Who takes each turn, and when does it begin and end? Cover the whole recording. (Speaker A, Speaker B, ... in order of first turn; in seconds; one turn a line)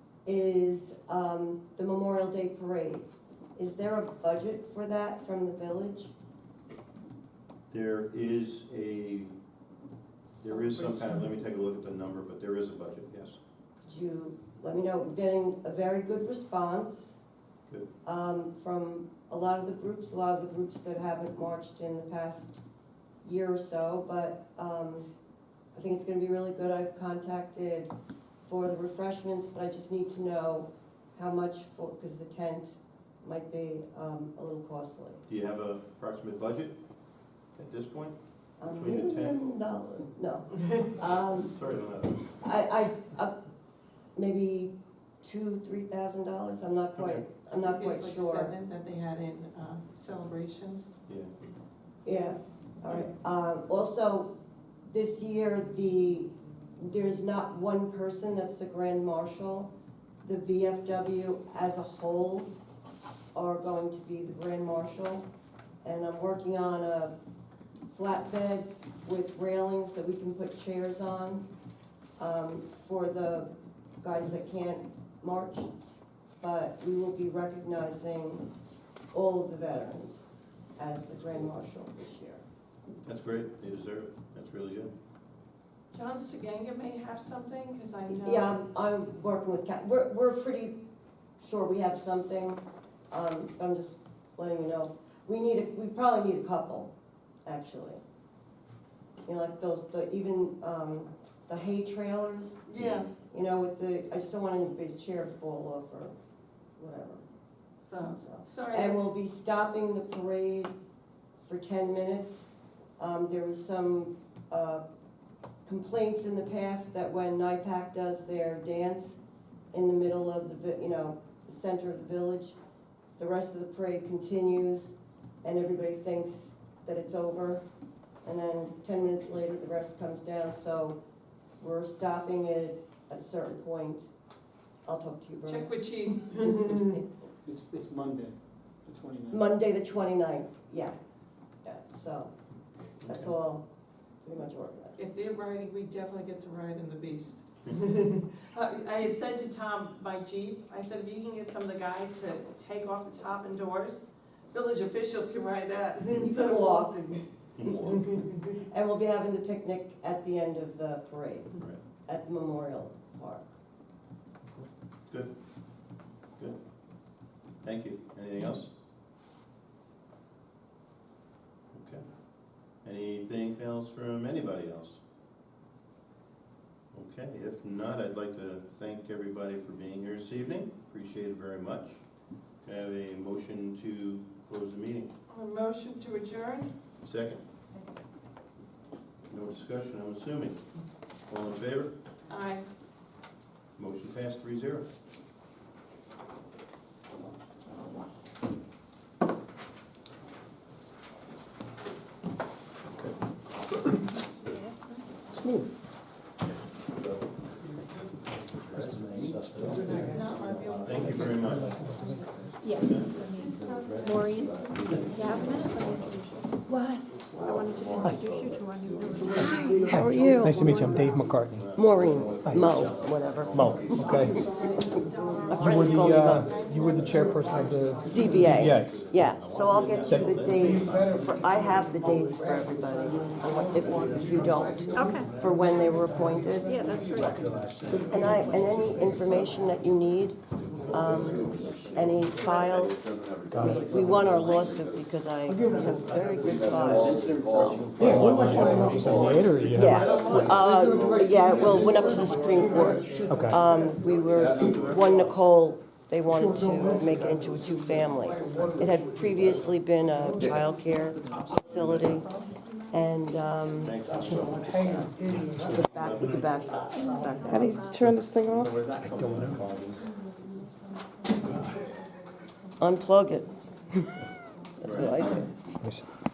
Speaker A: 0.2-6.1
Speaker B: 7.7-9.3
Speaker B: 10.4-13.4
Speaker C: 10.5-11.2
Speaker A: 13.8-17.2
Speaker A: 18.0-22.6
Speaker A: 23.2-25.1
Speaker A: 25.7-27.9
Speaker A: 28.4-35.2
Speaker B: 35.3-36.8
Speaker B: 37.6-38.1
Speaker A: 38.6-41.5
Speaker B: 38.7-39.4
Speaker B: 41.4-42.2
Speaker A: 42.4-43.4
Speaker A: 44.1-48.5
Speaker B: 47.0-47.2
Speaker C: 47.5-51.0
Speaker A: 52.0-54.3
Speaker A: 54.9-59.7
Speaker A: 60.2-62.5
Speaker A: 63.4-65.3
Speaker A: 65.8-67.2
Speaker A: 67.9-71.5
Speaker A: 72.2-75.7
Speaker A: 76.4-78.5
Speaker A: 79.1-80.2
Speaker A: 80.8-82.4
Speaker B: 83.0-84.9
Speaker C: 85.9-88.5
Speaker A: 88.1-90.8
Speaker A: 91.4-96.9
Speaker A: 97.5-98.0
Speaker A: 99.3-102.7
Speaker C: 102.7-103.1
Speaker B: 102.7-103.1
Speaker A: 103.3-106.2
Speaker A: 106.8-107.2
Speaker C: 107.8-109.0
Speaker A: 108.0-110.8
Speaker A: 111.4-114.8
Speaker A: 115.7-119.2
Speaker A: 119.7-122.6
Speaker A: 123.2-127.7
Speaker A: 128.2-131.0
Speaker A: 131.6-134.1
Speaker A: 134.9-135.7
Speaker C: 135.5-137.0
Speaker D: 137.4-139.4
Speaker A: 139.3-141.0
Speaker A: 141.6-142.3
Speaker A: 143.0-143.7
Speaker B: 143.0-143.3
Speaker A: 144.2-145.0
Speaker C: 145.0-157.2
Speaker A: 156.2-163.5
Speaker B: 157.6-157.9
Speaker C: 157.9-158.3
Speaker B: 167.6-168.7
Speaker B: 171.7-172.0
Speaker B: 172.8-175.0
Speaker B: 176.9-182.0
Speaker B: 182.6-185.1
Speaker C: 185.3-186.7
Speaker B: 187.0-187.4
Speaker B: 189.3-190.6
Speaker B: 191.3-191.9
Speaker C: 192.3-192.7
Speaker B: 193.8-194.9
Speaker E: 205.4-205.6
Speaker B: 209.2-209.8
Speaker C: 209.8-211.6
Speaker B: 210.8-211.9
Speaker F: 212.6-214.6
Speaker B: 212.8-213.1
Speaker C: 213.2-214.2
Speaker F: 215.1-216.4
Speaker A: 216.7-217.0
Speaker F: 217.4-219.7
Speaker E: 218.0-218.3
Speaker A: 219.3-220.7
Speaker E: 219.8-221.7
Speaker A: 221.7-224.8
Speaker E: 222.5-222.7
Speaker E: 223.5-224.5
Speaker C: 224.5-227.2
Speaker A: 225.5-226.5
Speaker E: 225.6-229.0
Speaker A: 228.1-236.9
Speaker B: 230.4-231.0
Speaker F: 234.9-235.3
Speaker F: 236.7-237.4
Speaker A: 238.1-249.0
Speaker E: 248.0-250.5
Speaker A: 249.7-262.3
Speaker E: 253.3-253.6
Speaker A: 262.9-264.0
Speaker B: 263.8-265.2
Speaker B: 265.7-266.6
Speaker A: 265.7-267.6
Speaker C: 267.4-268.8
Speaker E: 269.0-269.6
Speaker A: 272.8-274.1
Speaker B: 274.8-275.5
Speaker A: 274.8-275.5